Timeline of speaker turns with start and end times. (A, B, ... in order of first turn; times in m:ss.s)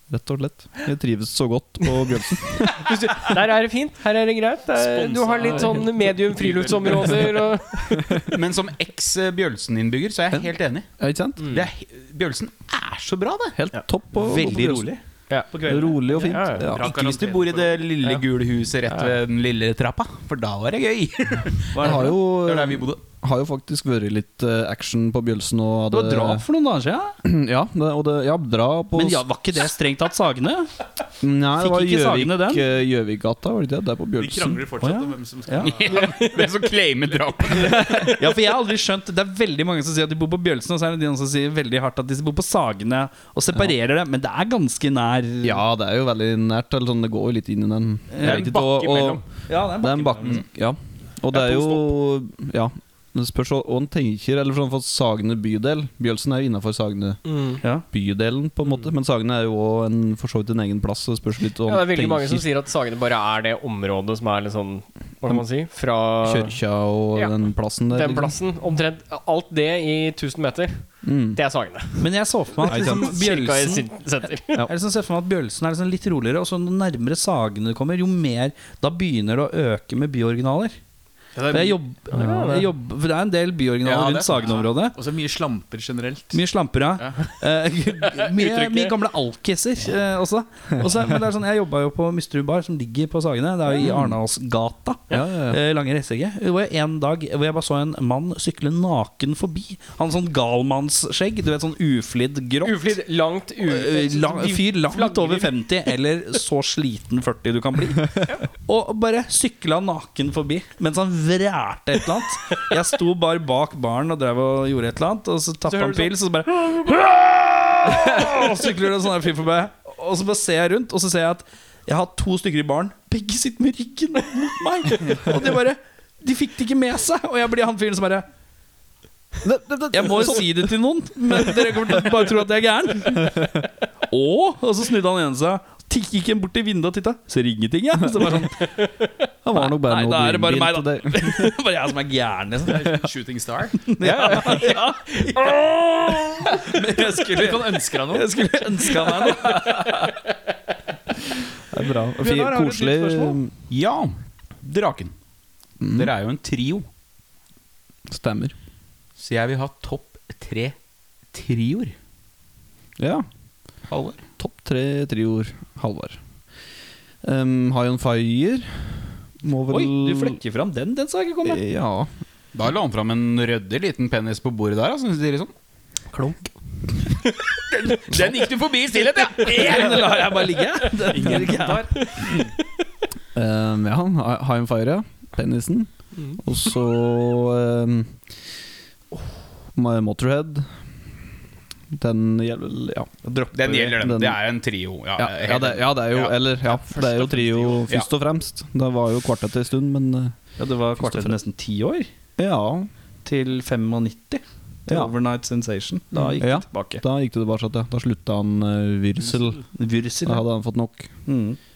0:00.1-0:02.9 A
0:02.7-0:08.2 B
0:04.8-0:07.3 C
0:08.3-0:10.9 D
0:11.0-0:11.6 A
0:11.4-0:13.6 D
0:13.5-0:14.9 A
0:14.1-0:15.0 E
0:15.5-0:16.4 E
0:15.6-0:16.9 A
0:16.1-0:16.7 B
0:16.6-0:17.8 C
0:16.8-0:23.0 D
0:21.7-0:22.2 E
0:21.8-0:26.4 A
0:25.9-0:27.2 E
0:27.2-0:29.2 A
0:28.9-0:30.7 E
0:31.2-0:34.6 A
0:31.6-0:32.6 E
0:34.2-0:36.3 C
0:34.8-0:35.8 E
0:35.8-0:38.1 D
0:37.7-0:45.6 E
0:45.4-0:49.2 A
0:48.1-0:48.6 E
0:48.2-0:49.2 D
0:49.5-0:50.4 E
0:49.8-0:57.2 A
0:51.3-0:51.7 C
0:57.2-0:57.6 B
0:57.9-1:02.4 A
1:01.6-1:06.6 B
1:06.2-1:08.3 A
1:07.9-1:14.6 B
1:11.0-1:11.4 A
1:12.0-1:13.9 E
1:12.7-1:13.1 A
1:14.6-1:20.7 E
1:21.3-1:21.8 C
1:21.5-1:25.0 E
1:22.1-1:22.7 B
1:23.8-1:24.1 D
1:24.0-1:26.4 C
1:26.3-1:42.9 E
1:27.0-1:27.2 C
1:28.4-1:28.9 B
1:33.8-1:34.2 A
1:35.1-1:35.6 A
1:42.6-1:45.5 B
1:43.6-2:08.2 E
1:55.7-1:56.8 B
2:09.4-2:10.7 A
2:09.9-2:18.7 E
2:11.4-2:12.0 A
2:18.6-2:19.1 B
2:19.4-2:21.5 A
2:19.5-2:23.0 E
2:22.6-2:23.9 C
2:23.9-2:30.1 E
2:24.0-2:25.2 B
2:26.6-2:28.3 C
2:28.9-2:29.8 C
2:31.7-2:33.5 A
2:32.2-2:33.4 E
2:33.7-2:35.1 D
2:35.8-2:36.1 A
2:35.9-2:36.8 D
2:38.1-2:38.5 A
2:39.2-2:40.8 D
2:41.3-2:41.9 D
2:43.0-2:43.3 A
2:43.9-2:46.2 A
2:47.2-2:50.4 A
2:49.7-2:51.6 E
2:51.4-2:52.1 A
2:52.5-2:55.5 D
2:57.7-3:00.0 D
2:59.4-3:01.9 E
3:01.0-3:02.4 C
3:02.0-3:02.4 B
3:03.3-3:08.2 A
3:09.7-3:10.7 A
3:11.9-3:13.1 A
3:13.2-3:14.0 E
3:13.5-3:16.3 D
3:14.0-3:14.4 A
3:15.2-3:20.4 A
3:16.7-3:17.9 C
3:20.6-3:22.1 E
3:21.0-3:21.4 A
3:22.4-3:22.9 A
3:23.2-3:27.0 E
3:24.9-3:25.1 A
3:26.1-3:29.6 A
3:29.6-3:30.5 E
3:30.2-3:31.1 A
3:31.2-3:31.6 E